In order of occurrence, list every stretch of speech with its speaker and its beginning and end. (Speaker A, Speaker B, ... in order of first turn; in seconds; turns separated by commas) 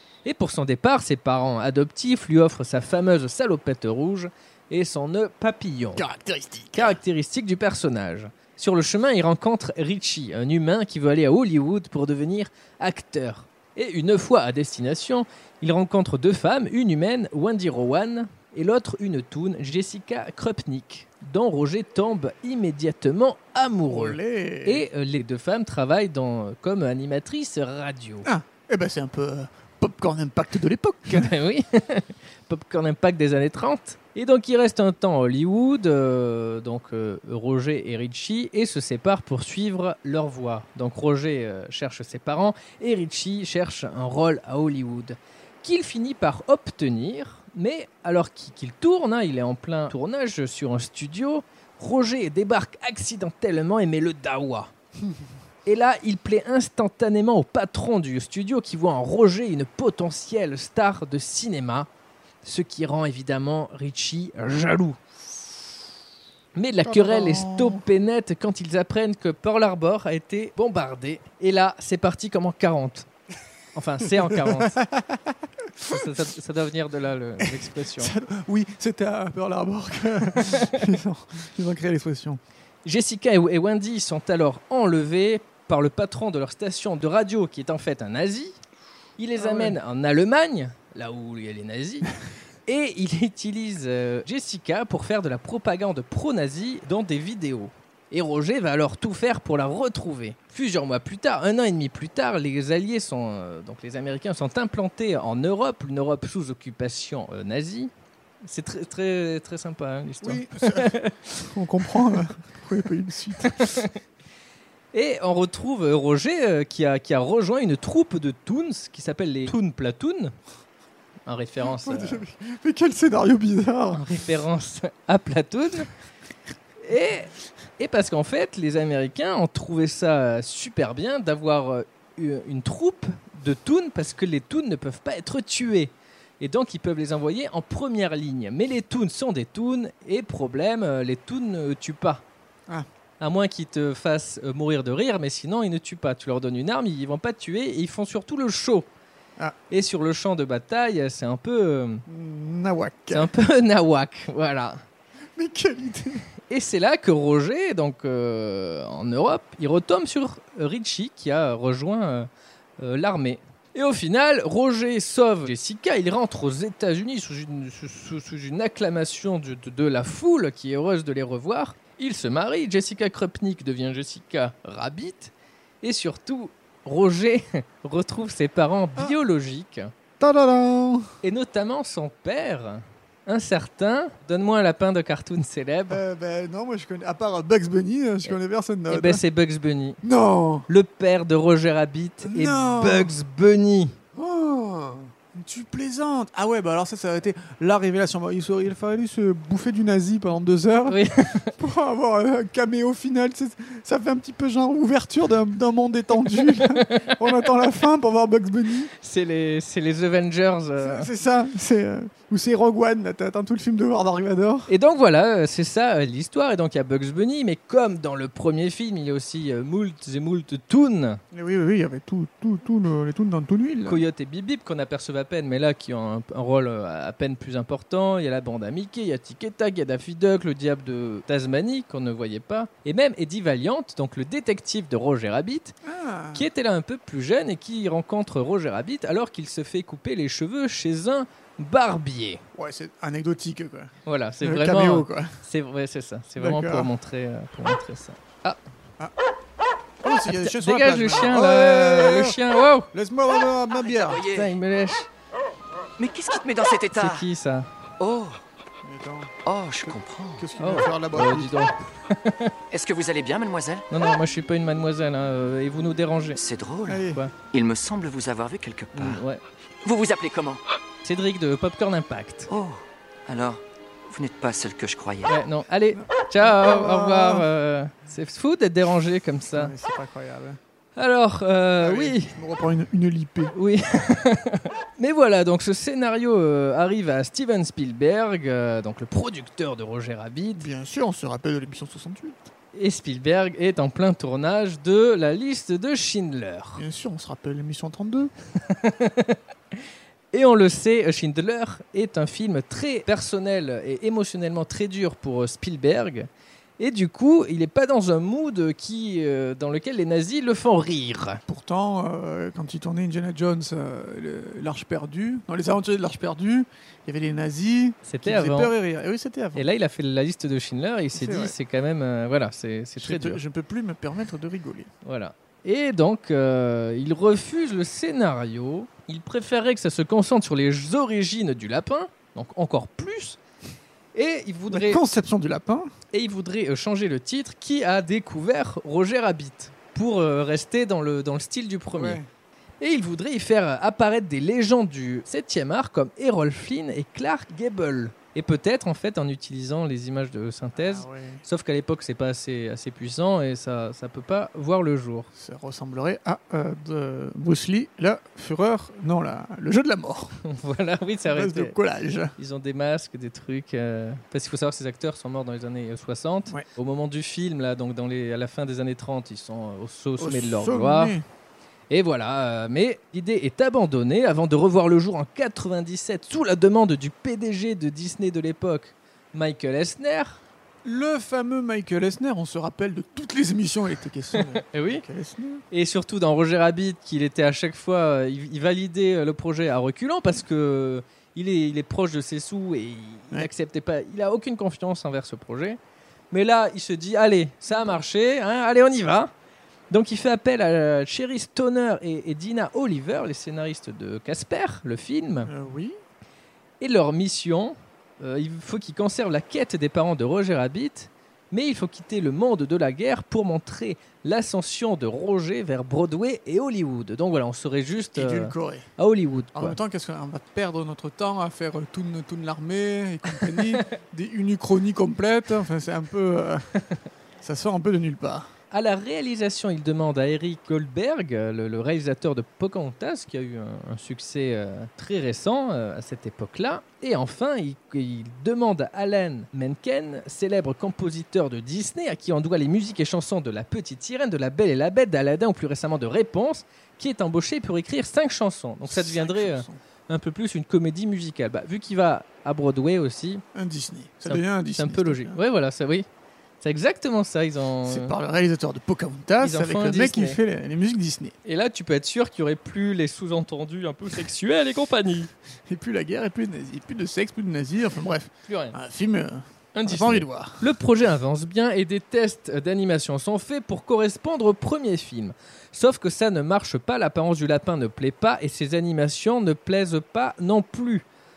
Speaker A: 0.2-6.0, Speaker B: 6.0-7.0, Speaker A: 6.7-28.3, Speaker B: 23.9-24.8, Speaker B: 28.2-31.3, Speaker A: 31.1-54.7, Speaker A: 55.6-61.9, Speaker A: 62.4-65.0, Speaker A: 66.5-73.1, Speaker B: 66.8-67.8, Speaker A: 73.7-74.8, Speaker B: 74.2-75.2, Speaker A: 75.8-78.1, Speaker B: 77.4-82.4, Speaker A: 80.4-80.8, Speaker A: 82.8-88.5, Speaker A: 89.2-92.1, Speaker B: 89.3-89.8, Speaker A: 92.7-107.9, Speaker A: 108.4-111.1, Speaker B: 110.2-113.8, Speaker A: 113.4-114.0, Speaker A: 114.9-120.3, Speaker A: 121.2-122.2, Speaker B: 121.6-124.0, Speaker A: 123.9-125.9, Speaker A: 126.8-142.2, Speaker A: 143.2-148.9, Speaker A: 149.7-152.0, Speaker B: 152.1-153.3, Speaker A: 153.1-154.8, Speaker B: 155.4-156.2, Speaker A: 156.5-162.3, Speaker A: 162.8-179.9, Speaker B: 180.2-181.1, Speaker A: 181.2-186.0, Speaker B: 185.9-189.2, Speaker A: 188.9-190.0, Speaker B: 190.0-190.7, Speaker A: 190.7-193.9, Speaker B: 192.2-193.1, Speaker B: 194.1-201.0, Speaker A: 200.9-201.5, Speaker B: 201.6-208.9, Speaker A: 206.3-207.5, Speaker A: 209.0-211.1, Speaker B: 210.8-214.7, Speaker A: 214.7-221.2, Speaker B: 221.3-224.0, Speaker A: 223.8-235.7, Speaker B: 235.8-236.4, Speaker A: 236.3-242.4, Speaker B: 242.6-243.9, Speaker A: 244.1-248.6, Speaker B: 244.4-245.3, Speaker B: 246.4-246.9, Speaker B: 250.0-252.4, Speaker A: 250.3-252.9, Speaker B: 252.9-254.5, Speaker C: 253.8-254.5, Speaker A: 254.3-255.1, Speaker C: 256.0-257.2, Speaker A: 256.9-257.7, Speaker C: 258.0-258.4, Speaker B: 258.8-259.3, Speaker C: 259.4-260.5, Speaker B: 259.8-261.6, Speaker A: 260.6-262.5, Speaker C: 262.7-263.9, Speaker A: 263.9-266.4, Speaker C: 266.4-269.2, Speaker B: 266.9-267.2, Speaker A: 267.0-267.3, Speaker A: 268.9-269.4, Speaker C: 269.8-270.6, Speaker A: 271.0-272.5, Speaker C: 272.5-275.3, Speaker A: 275.2-279.7, Speaker B: 276.4-277.5, Speaker B: 279.5-280.6, Speaker A: 280.9-282.3, Speaker B: 281.8-283.5, Speaker A: 283.5-290.7, Speaker B: 290.6-292.4, Speaker A: 292.7-296.8, Speaker B: 296.8-298.3, Speaker A: 298.6-299.4, Speaker A: 300.3-311.4, Speaker B: 311.5-319.6, Speaker A: 318.0-318.7, Speaker A: 319.5-323.4, Speaker B: 321.1-321.5, Speaker B: 323.0-324.9, Speaker A: 325.0-333.4, Speaker A: 334.1-335.0, Speaker B: 334.7-335.9, Speaker A: 336.1-342.2, Speaker B: 341.9-342.2, Speaker A: 342.8-355.3, Speaker B: 350.8-351.4, Speaker B: 355.4-360.3, Speaker A: 360.4-361.8, Speaker B: 361.3-362.3, Speaker A: 362.4-371.2, Speaker B: 370.2-371.2, Speaker A: 371.9-380.4, Speaker B: 380.8-385.6, Speaker A: 384.7-385.0, Speaker A: 385.7-395.8, Speaker A: 396.3-399.3, Speaker A: 399.9-405.5, Speaker B: 405.4-405.9, Speaker A: 406.8-419.8, Speaker B: 418.1-418.9, Speaker B: 419.5-426.6, Speaker B: 427.4-428.5, Speaker A: 428.7-453.4, Speaker B: 448.8-449.8, Speaker B: 453.5-455.4, Speaker A: 454.3-456.1, Speaker A: 456.6-458.1, Speaker B: 457.8-461.3, Speaker A: 459.4-460.4, Speaker A: 461.4-465.3, Speaker B: 465.7-470.6, Speaker A: 468.5-468.8, Speaker A: 469.7-481.1